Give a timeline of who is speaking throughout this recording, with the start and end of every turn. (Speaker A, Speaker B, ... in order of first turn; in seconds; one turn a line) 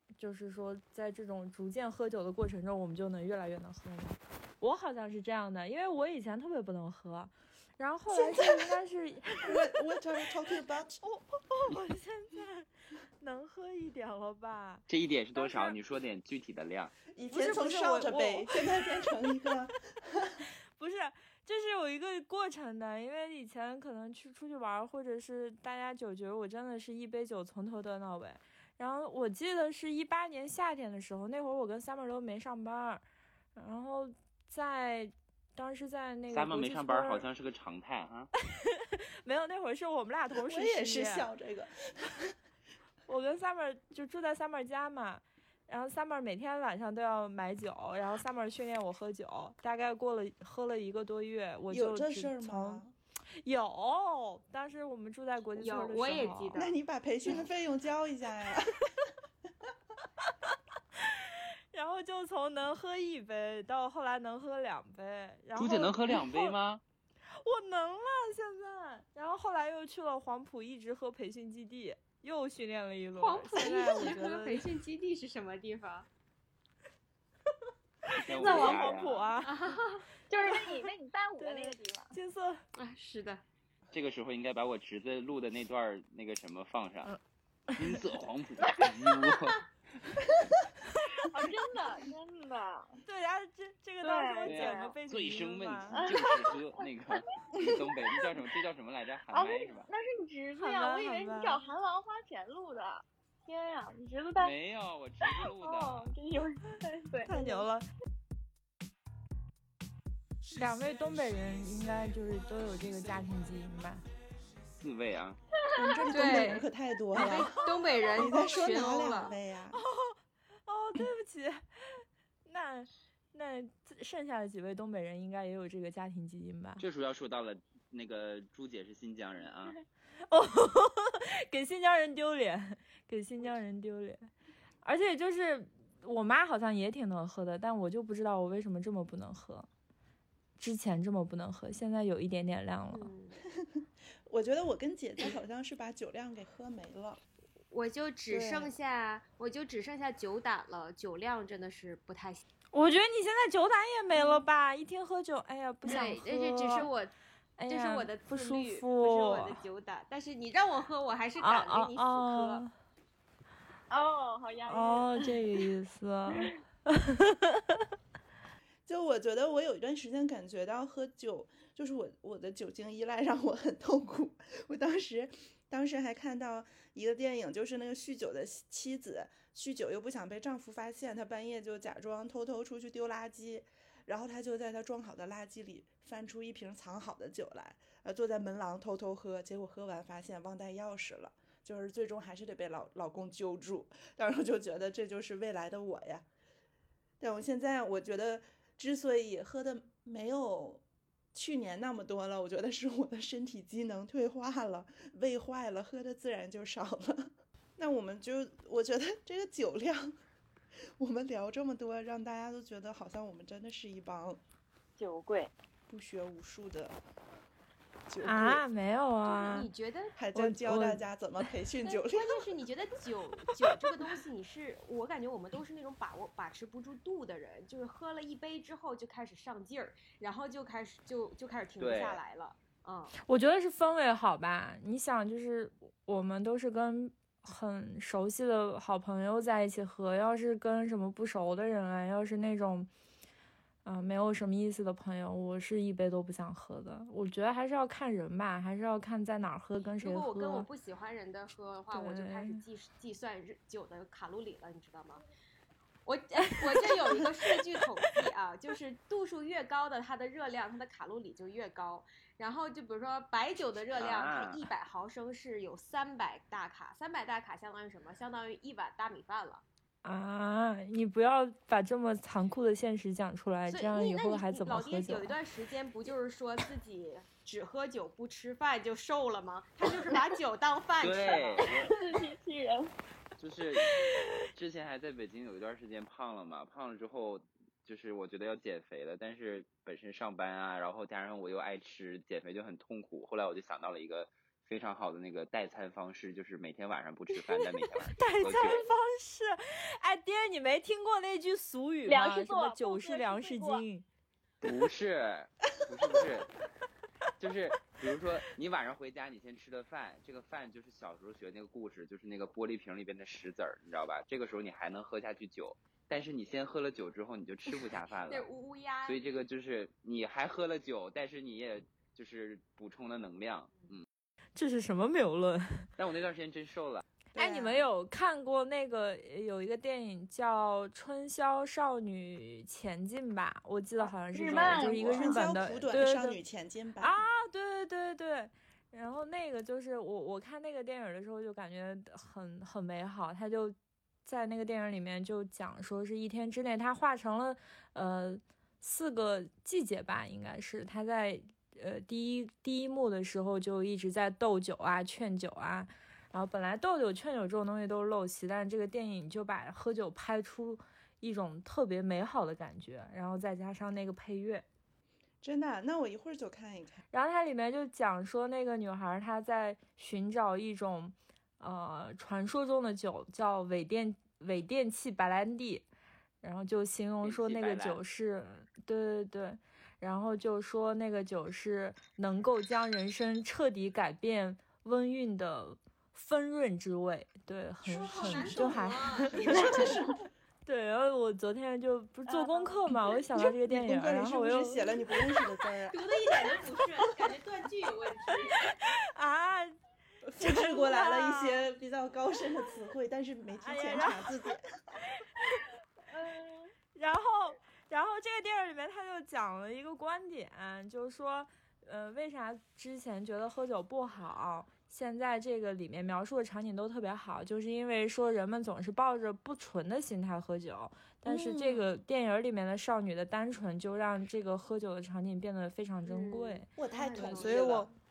Speaker A: 0.2-9.6
Speaker B: 8.1-8.8
Speaker B: 9.4-11.0
Speaker A: 11.0-12.7
Speaker A: 13.2-15.8
Speaker C: 14.9-17.0
Speaker B: 17.1-20.4
Speaker A: 17.3-18.6
Speaker A: 20.8-33.0
Speaker A: 33.5-37.3
Speaker C: 36.3-38.3
Speaker A: 38.5-41.3
Speaker B: 40.4-42.3
Speaker A: 43.1-52.8
Speaker B: 51.7-53.0
Speaker A: 53.4-56.6
Speaker D: 55.6-56.8
Speaker B: 56.5-58.8
Speaker A: 61.0-66.5
Speaker C: 65.6-66.8
Speaker A: 67.4-74.7
Speaker D: 73.2-76.1
Speaker A: 78.1-79.6
Speaker C: 78.2-79.3
Speaker E: 78.3-79.0
Speaker D: 79.4-80.0
Speaker E: 80.3-82.1
Speaker A: 80.5-82.6
Speaker D: 82.8-83.4
Speaker C: 83.9-87.1
Speaker A: 87.7-88.0
Speaker C: 87.8-89.6
Speaker E: 91.3-93.0
Speaker A: 93.1-96.1
Speaker E: 94.0-95.0
Speaker C: 94.5-99.9
Speaker E: 96.0-96.6
Speaker E: 99.3-104.5
Speaker A: 100.6-101.7
Speaker C: 104.4-106.1
Speaker E: 105.2-107.6
Speaker A: 107.2-107.8
Speaker A: 110.5-114.0
Speaker C: 114.8-115.4
Speaker B: 115.7-117.5
Speaker D: 116.1-119.4
Speaker A: 116.3-116.6
Speaker B: 118.1-119.8
Speaker A: 119.8-121.6
Speaker A: 122.5-126.8
Speaker C: 126.8-129.8
Speaker A: 130.3-134.3
Speaker A: 134.8-139.7
Speaker A: 140.6-143.1
Speaker D: 142.9-143.4
Speaker B: 143.6-147.2
Speaker D: 147.7-152.4
Speaker B: 148.3-148.7
Speaker A: 152.7-156.9
Speaker D: 155.9-157.1
Speaker A: 157.6-159.6
Speaker D: 157.7-162.6
Speaker A: 161.4-162.7
Speaker E: 163.9-165.6
Speaker A: 164.7-167.6
Speaker B: 168.9-196.3
Speaker B: 197.2-200.8
Speaker B: 201.3-210.1
Speaker B: 211.0-214.4
Speaker E: 215.0-215.5
Speaker B: 215.9-217.0
Speaker B: 218.1-218.7
Speaker A: 218.2-219.7
Speaker D: 219.2-220.2
Speaker B: 220.2-222.3
Speaker A: 220.3-221.1
Speaker D: 222.0-233.2
Speaker C: 231.8-232.2
Speaker A: 233.2-242.9
Speaker A: 243.8-250.7
Speaker D: 250.0-255.2
Speaker A: 251.9-252.6
Speaker D: 256.1-269.6
Speaker C: 263.9-264.7
Speaker A: 270.0-275.4
Speaker D: 273.7-281.7
Speaker C: 281.0-281.9
Speaker E: 281.6-282.9
Speaker C: 283.4-284.0
Speaker E: 283.9-284.3
Speaker C: 284.5-298.9
Speaker A: 298.2-304.1
Speaker E: 302.1-303.8
Speaker C: 304.6-306.5
Speaker C: 307.4-318.5
Speaker D: 318.3-319.2
Speaker C: 319.0-324.1
Speaker A: 324.6-325.9
Speaker C: 326.0-327.1
Speaker B: 327.3-327.8
Speaker A: 327.4-336.4
Speaker E: 334.0-335.3
Speaker C: 334.5-335.0
Speaker B: 335.0-337.2
Speaker A: 337.0-364.7
Speaker B: 365.4-367.0
Speaker A: 367.1-375.9
Speaker A: 376.4-389.9
Speaker C: 377.2-378.0
Speaker D: 387.8-389.9
Speaker B: 388.1-390.2
Speaker E: 389.5-389.9
Speaker A: 390.7-394.9
Speaker E: 392.3-393.1
Speaker B: 393.6-396.0
Speaker D: 395.9-398.7
Speaker A: 398.6-399.8
Speaker B: 400.2-404.6
Speaker A: 400.4-401.7
Speaker A: 403.5-404.3
Speaker A: 405.2-405.7
Speaker E: 406.1-406.7
Speaker A: 406.9-427.9
Speaker B: 421.2-421.9
Speaker D: 426.1-427.8
Speaker B: 426.8-427.9